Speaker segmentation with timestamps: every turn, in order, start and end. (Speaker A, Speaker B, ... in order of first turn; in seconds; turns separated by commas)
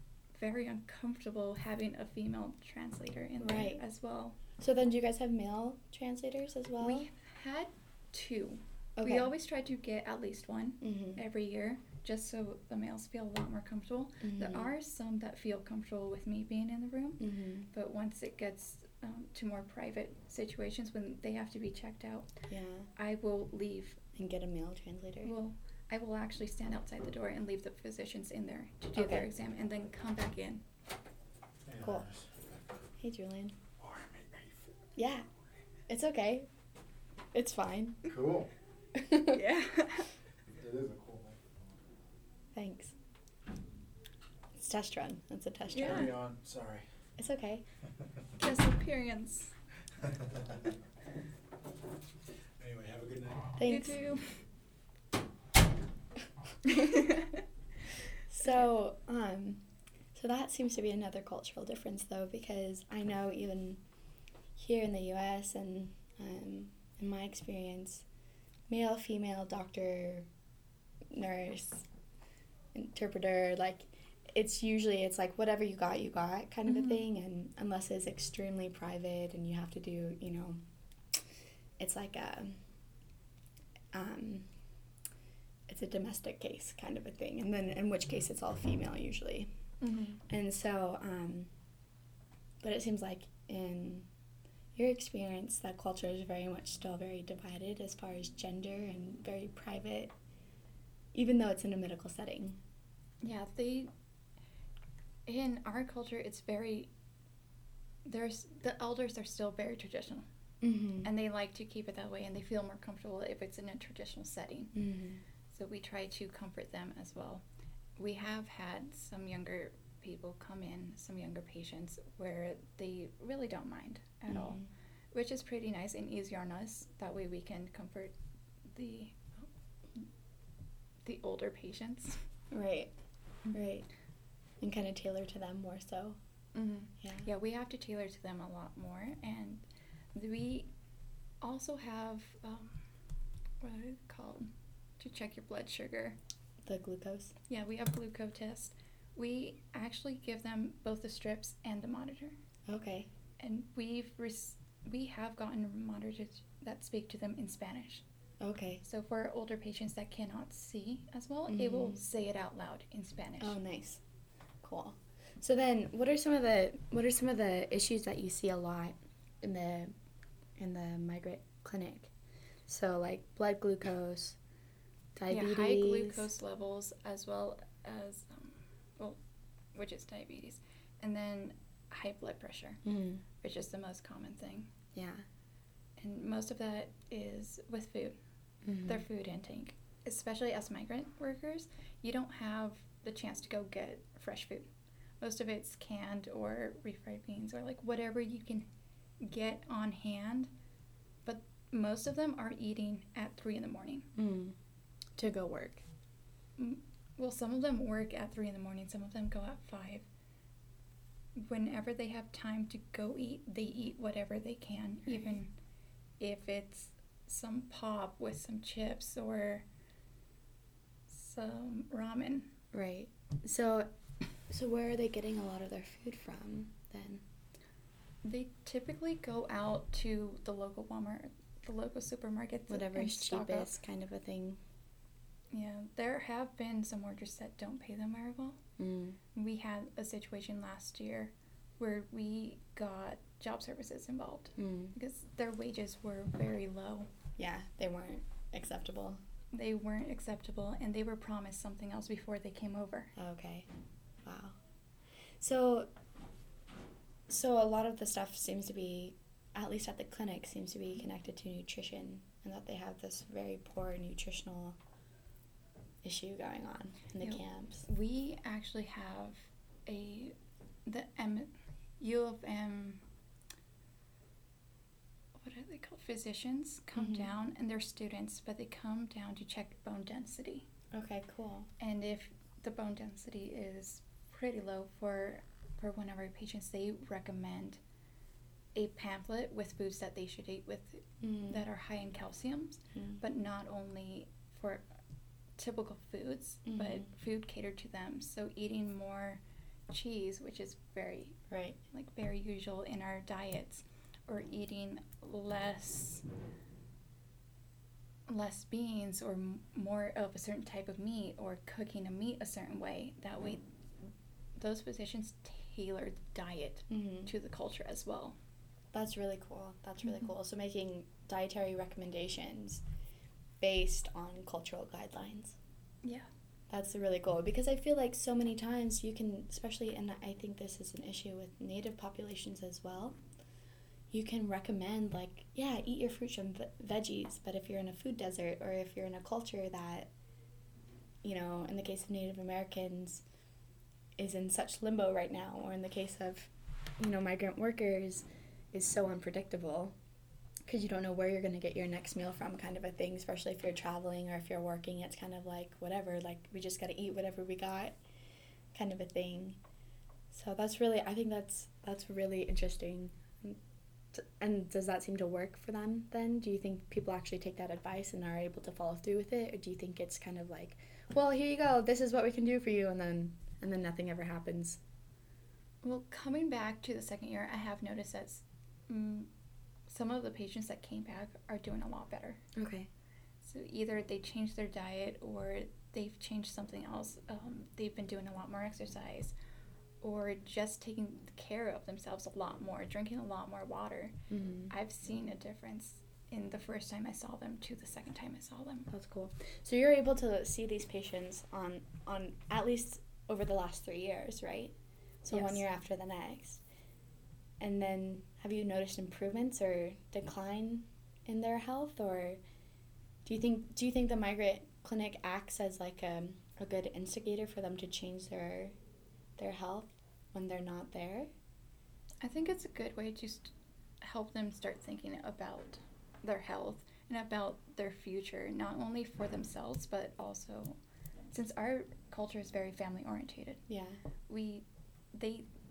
Speaker A: 0.3-4.4, Speaker B: 3.4-3.8, Speaker B: 4.6-7.1, Speaker A: 6.8-22.3, Speaker B: 9.0-9.3, Speaker B: 10.8-11.2, Speaker B: 14.2-14.7, Speaker B: 17.2-17.7, Speaker B: 22.5-22.9, Speaker A: 22.9-24.0, Speaker B: 24.1-25.3, Speaker A: 25.2-30.6, Speaker B: 28.9-29.3, Speaker C: 31.6-32.5, Speaker B: 31.8-32.1, Speaker B: 33.0-33.5, Speaker C: 33.8-34.6, Speaker B: 35.0-35.2, Speaker B: 35.9-36.5, Speaker B: 37.3-38.1, Speaker C: 38.1-38.5, Speaker B: 38.9-39.4, Speaker A: 39.3-40.1, Speaker C: 40.5-41.5, Speaker B: 42.5-42.9, Speaker B: 44.5-46.1, Speaker C: 45.7-46.9, Speaker A: 45.7-46.1, Speaker B: 47.2-47.6, Speaker A: 48.4-49.5, Speaker C: 52.6-53.5, Speaker B: 53.5-53.9, Speaker A: 53.6-54.4, Speaker A: 56.7-57.3, Speaker B: 58.3-59.6, Speaker B: 60.1-63.8, Speaker B: 64.5-68.0, Speaker B: 68.7-70.3, Speaker B: 71.1-71.9, Speaker B: 72.7-80.6, Speaker A: 76.7-77.0, Speaker B: 81.8-82.6, Speaker B: 83.9-84.5, Speaker B: 85.7-89.5, Speaker A: 89.8-90.2, Speaker B: 90.3-91.5, Speaker B: 92.6-94.1, Speaker B: 94.7-100.1, Speaker B: 101.1-102.6, Speaker A: 103.2-103.9, Speaker A: 105.2-106.9, Speaker A: 108.0-110.3, Speaker B: 110.6-111.1, Speaker A: 111.0-114.7, Speaker B: 114.7-115.2, Speaker A: 115.5-117.4, Speaker A: 118.0-124.6, Speaker B: 124.3-124.7, Speaker A: 125.1-128.1, Speaker A: 128.7-130.1, Speaker A: 131.0-132.2, Speaker B: 132.5-132.9, Speaker B: 133.5-133.9, Speaker B: 134.6-136.2, Speaker A: 136.5-140.7, Speaker B: 137.0-137.3, Speaker A: 141.4-142.8, Speaker A: 143.6-144.5, Speaker A: 145.0-146.2, Speaker B: 146.7-147.3, Speaker A: 147.5-152.4, Speaker B: 152.7-153.1, Speaker A: 153.4-158.0, Speaker B: 158.4-158.8, Speaker A: 158.8-163.6, Speaker B: 161.5-162.0, Speaker B: 163.4-164.0, Speaker B: 164.6-169.9, Speaker B: 170.6-172.1, Speaker B: 172.7-174.4, Speaker B: 175.2-176.2, Speaker A: 175.3-179.2, Speaker A: 179.7-182.8, Speaker B: 182.8-183.2, Speaker A: 183.4-184.7, Speaker B: 184.9-185.2, Speaker A: 186.0-188.2, Speaker B: 188.6-189.0, Speaker A: 188.8-198.7, Speaker A: 199.2-200.5, Speaker A: 201.2-204.1, Speaker B: 204.1-204.6, Speaker B: 205.2-205.8, Speaker A: 206.6-210.1, Speaker A: 211.3-215.5, Speaker A: 216.2-219.7, Speaker A: 221.1-222.5, Speaker B: 222.7-223.9, Speaker B: 224.5-227.2, Speaker A: 228.2-233.8, Speaker B: 232.7-234.6, Speaker A: 235.5-238.6, Speaker B: 238.8-239.2, Speaker A: 239.3-247.1, Speaker B: 244.6-244.9, Speaker B: 247.4-249.2, Speaker A: 249.5-253.1, Speaker B: 253.1-253.7, Speaker B: 254.2-254.6, Speaker B: 255.4-255.9, Speaker B: 257.3-264.8, Speaker B: 266.0-267.9, Speaker A: 267.2-273.0, Speaker A: 275.4-280.7, Speaker B: 276.9-277.3, Speaker B: 280.9-281.7, Speaker A: 281.8-287.8, Speaker A: 288.7-294.9, Speaker B: 291.2-291.6, Speaker B: 292.9-293.2, Speaker A: 295.6-301.4, Speaker B: 296.6-297.1, Speaker B: 301.5-301.8, Speaker A: 301.9-306.2, Speaker A: 308.3-313.6, Speaker A: 314.6-318.4, Speaker B: 316.9-317.3, Speaker B: 318.9-322.8, Speaker B: 323.6-325.6, Speaker B: 326.7-333.2, Speaker B: 334.1-340.1, Speaker B: 341.2-343.2, Speaker B: 344.2-349.9, Speaker B: 350.7-358.0, Speaker B: 358.7-359.6, Speaker B: 360.3-363.6, Speaker B: 364.1-374.8, Speaker A: 375.8-379.3, Speaker A: 379.9-382.4, Speaker B: 382.5-382.9, Speaker A: 383.4-389.4, Speaker A: 390.0-394.2, Speaker B: 394.3-394.7, Speaker A: 394.7-398.9, Speaker B: 398.9-406.6, Speaker A: 405.3-405.6, Speaker B: 407.6-412.4, Speaker B: 413.2-418.7, Speaker B: 419.4-421.3, Speaker A: 422.2-430.8, Speaker A: 431.3-433.6, Speaker B: 433.7-434.0, Speaker A: 434.3-435.5